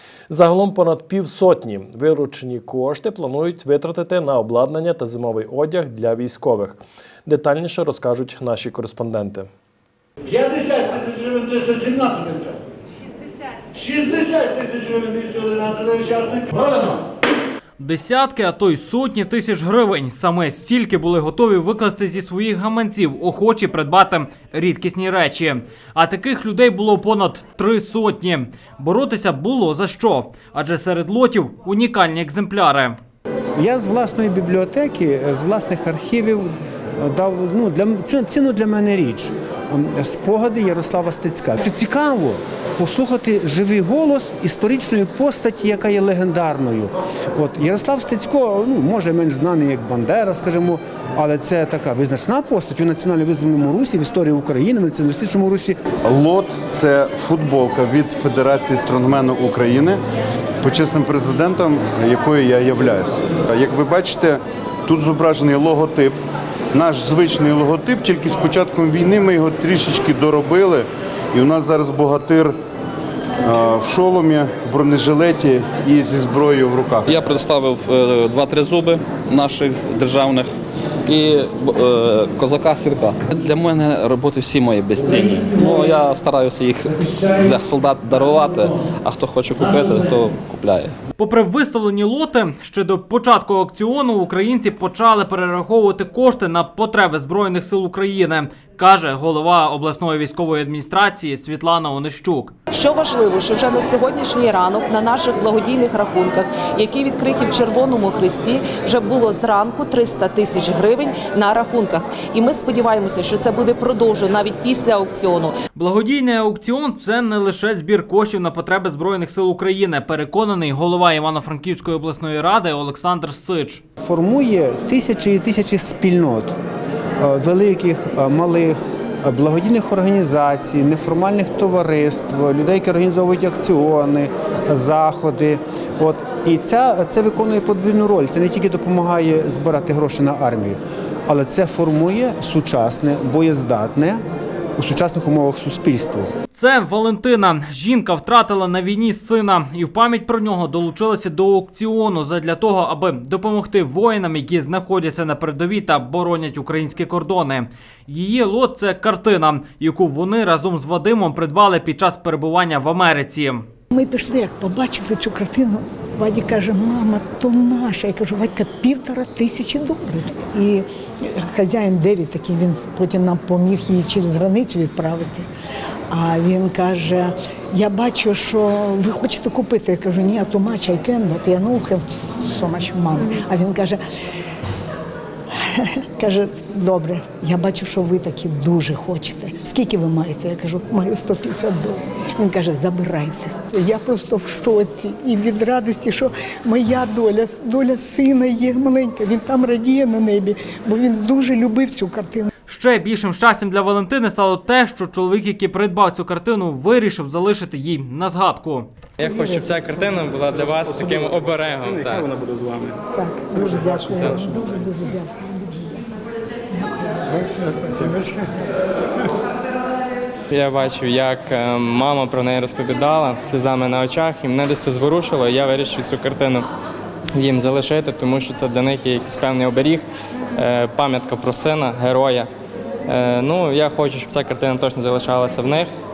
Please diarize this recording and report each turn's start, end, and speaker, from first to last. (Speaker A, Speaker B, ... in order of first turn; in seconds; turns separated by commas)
Speaker A: 0.3-9.5, Speaker B: 10.3-12.5, Speaker B: 13.7-16.6, Speaker C: 17.8-33.0, Speaker D: 33.6-55.8, Speaker E: 56.0-60.0, Speaker E: 60.6-66.2, Speaker E: 66.7-72.5, Speaker E: 73.4-77.1, Speaker F: 77.1-80.5, Speaker F: 81.1-90.9, Speaker C: 91.2-102.5, Speaker G: 102.7-115.6, Speaker C: 115.7-123.8, Speaker D: 124.0-126.5, Speaker D: 127.2-144.2, Speaker D: 144.8-146.3, Speaker C: 146.5-163.6, Speaker H: 163.9-175.5, Speaker H: 176.1-184.0, Speaker H: 185.8-202.5, Speaker C: 202.7-208.9, Speaker I: 209.2-212.3, Speaker H: 209.2-210.2, Speaker B: 210.4-213.0, Speaker H: 213.1-216.0, Speaker I: 214.0-214.4, Speaker H: 216.7-217.1, Speaker B: 217.3-218.4, Speaker I: 220.5-226.7, Speaker I: 227.3-230.0, Speaker I: 230.6-232.5, Speaker I: 233.1-235.9